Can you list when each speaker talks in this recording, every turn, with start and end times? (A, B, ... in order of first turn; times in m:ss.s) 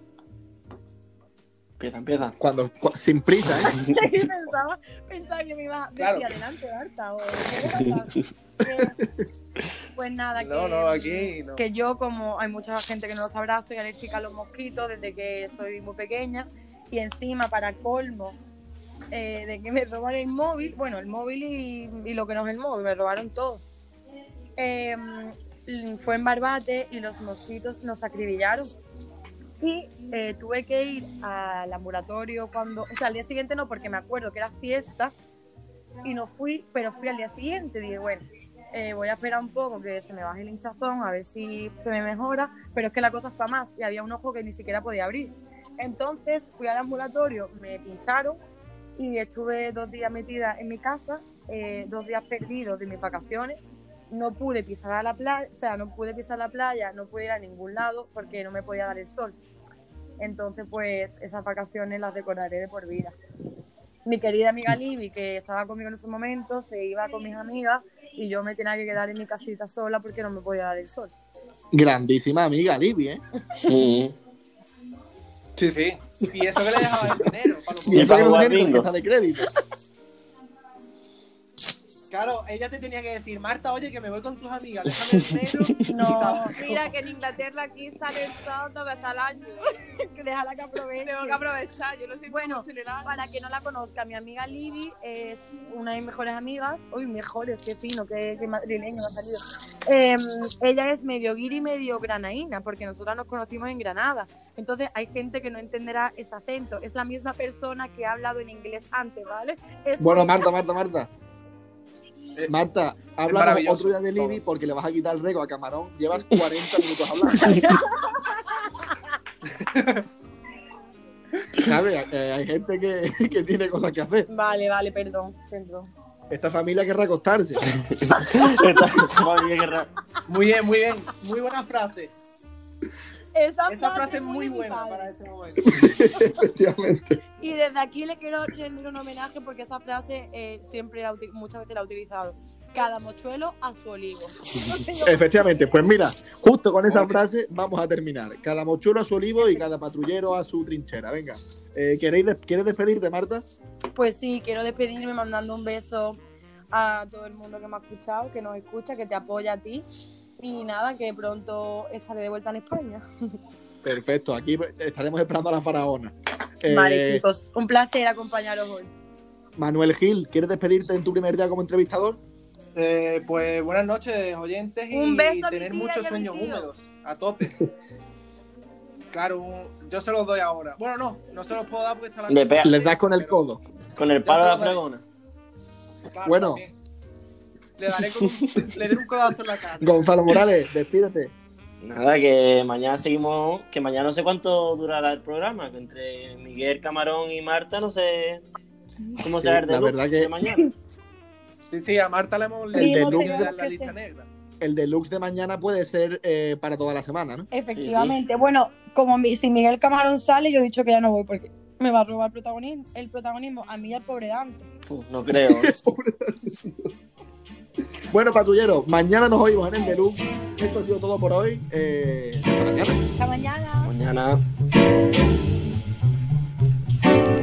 0:01.8-0:02.4 A
0:02.4-0:03.7 B
0:03.7-0:09.0 C
0:06.0-0:06.3 D
0:07.7-0:07.9 A
0:10.0-0:18.4 C
0:10.4-0:11.6 D
0:19.1-0:23.6 C
0:24.6-0:28.7 C
0:29.6-0:35.1 C
0:36.0-0:48.4 C
0:49.0-0:59.4 C
1:00.2-1:03.1 C
1:04.0-1:11.1 C
1:11.7-1:13.2 B
1:13.6-1:14.1 A
1:15.6-1:18.5 D
1:17.9-1:19.5 B
1:17.9-1:18.9 A
1:22.1-1:26.9 D
1:25.9-1:26.6 C
1:26.5-1:29.7 E
1:30.1-1:31.4 C
1:31.0-1:33.2 E
1:32.3-1:50.5 C
1:50.0-1:51.1 B
1:52.5-1:57.6 B
1:53.3-1:54.4 D
1:57.4-1:58.9 C
1:59.6-2:00.0 D
2:01.6-2:04.3 B
2:04.3-2:05.9 C
2:06.3-2:07.6 B
2:07.8-2:09.9 A
2:10.3-2:12.1 D
2:13.3-2:15.1 C
2:13.7-2:15.7 D
2:15.7-2:17.2 B
2:17.4-2:25.3 C
2:25.0-2:33.4 B
2:26.9-2:27.2 D
2:34.0-2:36.2 C
2:36.7-2:39.9 C
2:40.4-2:43.0 C
2:43.8-2:47.2 B
2:46.7-2:48.9 C
2:49.6-2:52.2 B
2:52.7-2:57.6 D
2:54.9-2:56.7 C
2:59.1-3:03.4 D
3:02.3-3:02.7 A
3:02.6-3:03.6 B
3:04.0-3:05.0 A
3:04.2-3:04.8 D
3:06.1-3:06.7 D
3:06.3-3:06.6 B
3:07.8-3:10.2 D
3:09.8-3:11.3 B
3:11.8-3:18.4 A
3:19.2-3:20.7 A
3:19.4-3:20.3 B
3:21.7-3:24.3 D
3:22.7-3:23.9 C
3:22.8-3:23.5 B
3:24.6-3:27.5 B
3:27.5-3:34.7 C
3:27.7-3:28.2 A
3:34.9-3:35.8 A
3:35.3-3:36.9 B
3:38.1-3:43.0 B
3:43.2-3:43.9 C
3:43.8-3:44.4 A